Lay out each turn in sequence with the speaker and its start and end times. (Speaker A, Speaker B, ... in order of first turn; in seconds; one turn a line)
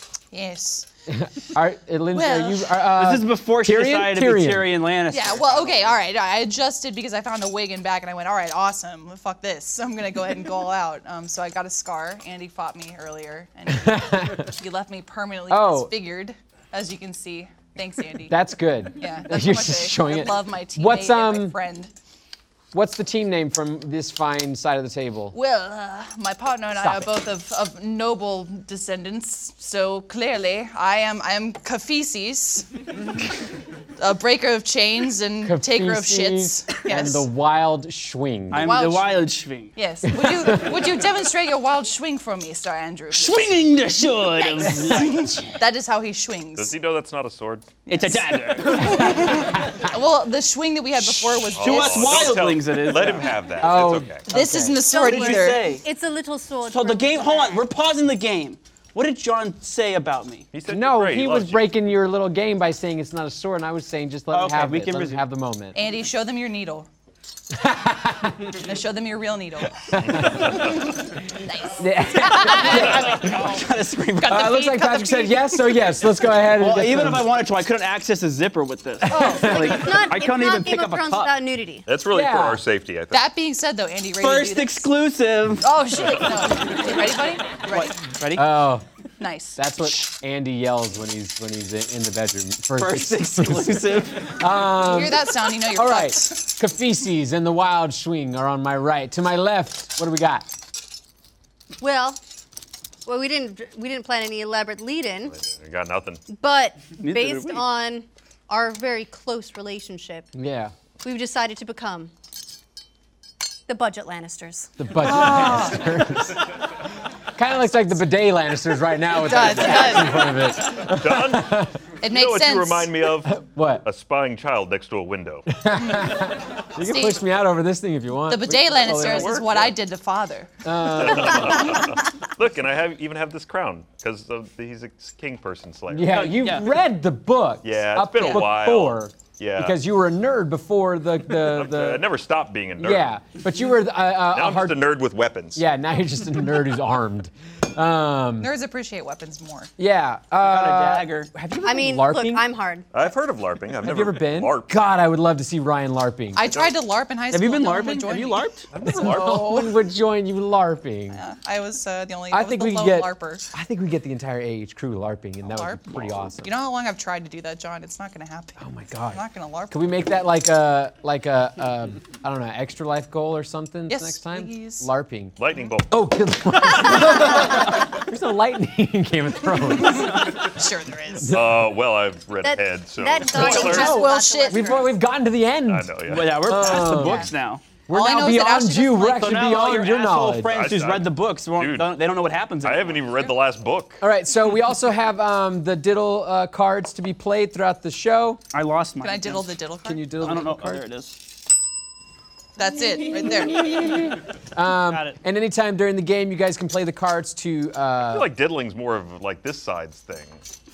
Speaker A: 0.3-0.9
Speaker B: 1.1-4.7
Speaker A: 2.1-2.7
Speaker C: 2.9-5.9
Speaker A: 5.1-18.4
Speaker B: 13.7-14.5
Speaker B: 15.5-15.9
Speaker B: 18.3-21.6
Speaker A: 18.9-21.9
Speaker B: 22.7-25.4
Speaker A: 25.3-32.8
Speaker B: 26.8-27.1
Speaker A: 34.0-37.3
Speaker B: 35.4-38.8
Speaker C: 38.5-39.7
Speaker A: 38.5-43.6
Speaker B: 40.1-40.7
Speaker C: 43.1-45.6
Speaker A: 44.3-46.7
Speaker D: 46.6-47.7
Speaker A: 47.9-52.4
Speaker C: 47.9-49.5
Speaker B: 49.0-49.3
Speaker D: 51.5-54.2
Speaker C: 51.6-53.4
Speaker B: 53.6-54.8
Speaker A: 54.3-55.7
Speaker E: 54.8-57.6
Speaker C: 54.9-55.9
Speaker C: 56.7-60.5
Speaker D: 60.5-61.7
Speaker B: 60.7-65.8
Speaker C: 64.3-65.2
Speaker A: 65.8-66.9
Speaker B: 67.5-68.5
Speaker A: 68.4-70.2
Speaker B: 69.9-70.9
Speaker D: 70.2-70.5
Speaker A: 71.3-73.6
Speaker B: 71.8-73.3
Speaker C: 72.5-74.6
Speaker A: 74.2-75.8
Speaker B: 74.3-77.3
Speaker C: 76.6-81.4
Speaker B: 79.0-79.9
Speaker E: 79.1-81.9
Speaker D: 81.9-83.2
Speaker B: 82.1-82.6
Speaker A: 83.1-84.9
Speaker C: 84.2-85.7
Speaker A: 85.6-88.0
Speaker C: 87.7-88.7
Speaker B: 88.3-88.8
Speaker A: 89.2-89.9
Speaker B: 89.6-100.5
Speaker C: 92.8-94.4
Speaker A: 94.7-96.5
Speaker E: 101.8-102.2
Speaker E: 103.1-105.3
Speaker D: 105.3-106.2
Speaker E: 106.3-110.3
Speaker C: 107.0-107.7
Speaker B: 110.3-110.7
Speaker E: 111.0-112.1
Speaker E: 113.7-114.7
Speaker B: 114.8-116.6
Speaker A: 115.1-115.8
Speaker B: 117.4-121.8
Speaker A: 119.1-120.5
Speaker D: 120.9-125.5
Speaker A: 122.0-123.0
Speaker B: 123.2-123.8
Speaker B: 125.5-129.5
Speaker A: 125.8-127.2
Speaker A: 128.3-130.6
Speaker D: 128.9-129.7
Speaker B: 130.6-131.8
Speaker D: 131.0-136.3
Speaker A: 131.3-131.8
Speaker B: 135.9-142.1
Speaker C: 136.1-136.7
Speaker D: 137.6-139.8
Speaker A: 138.2-138.4
Speaker D: 141.3-143.1
Speaker B: 142.8-144.8
Speaker D: 144.3-145.6
Speaker B: 145.6-148.5
Speaker A: 148.4-149.7
Speaker B: 149.8-152.5
Speaker C: 150.4-151.3
Speaker E: 151.6-152.9
Speaker D: 152.9-154.7
Speaker B: 153.8-156.4
Speaker A: 156.4-158.5
Speaker C: 157.3-159.4
Speaker D: 158.7-159.3
Speaker B: 158.8-161.2
Speaker A: 159.0-159.7
Speaker A: 161.1-163.5
Speaker B: 162.3-166.5
Speaker A: 165.5-168.6
Speaker B: 168.6-175.3
Speaker A: 169.1-169.8
Speaker A: 173.9-174.9
Speaker D: 175.4-176.0
Speaker B: 175.9-180.5
Speaker A: 179.8-181.4
Speaker D: 181.3-184.1
Speaker E: 182.4-185.0
Speaker A: 183.3-184.8
Speaker B: 183.4-187.3
Speaker D: 185.7-186.7
Speaker C: 186.1-187.7
Speaker A: 186.9-187.3
Speaker B: 187.9-190.6
Speaker A: 187.9-189.3
Speaker C: 189.1-193.0
Speaker D: 190.5-191.9
Speaker D: 192.6-194.0
Speaker B: 194.0-198.4
Speaker C: 198.5-199.5
Speaker A: 199.0-200.1
Speaker B: 199.9-200.9
Speaker C: 200.2-201.2
Speaker A: 202.6-203.9
Speaker B: 203.5-208.3
Speaker C: 204.9-205.2
Speaker D: 208.1-210.4